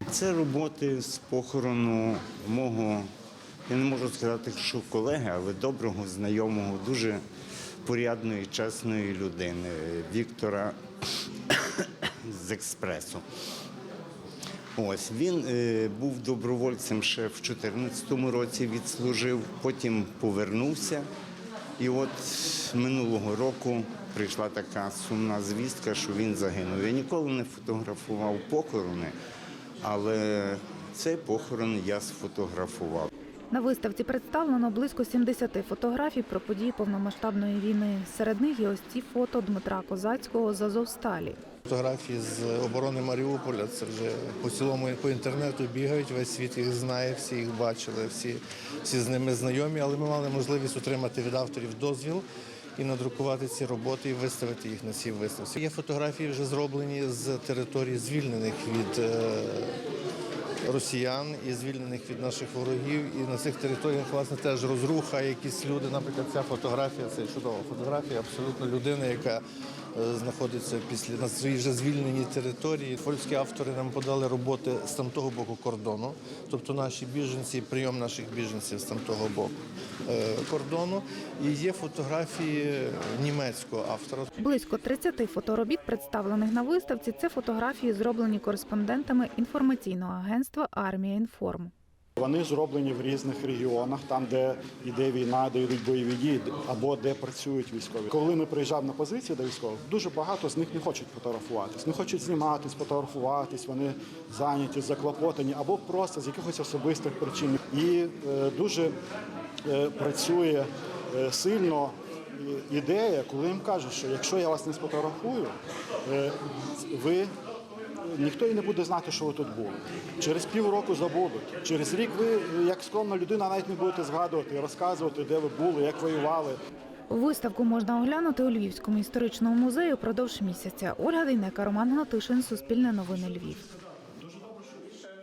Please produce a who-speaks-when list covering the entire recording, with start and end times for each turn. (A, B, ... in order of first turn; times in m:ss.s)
0:00.1-0:03.1 A
0:03.7-0:07.2 A
0:07.8-0:10.8 A
0:11.5-0:13.2 A
0:14.8-0:21.1 A
0:21.8-0:29.2 A
0:29.8-0:33.1 A
0:33.5-0:41.4 B
0:41.7-0:52.2 C
0:52.8-0:59.8 C
1:00.6-1:09.4 C
1:10.0-1:19.6 C
1:20.1-1:24.3 C
1:24.4-1:31.7 B
1:32.2-1:49.0 D
1:49.7-1:57.3 D
1:58.0-2:06.6 D
2:07.1-2:13.7 B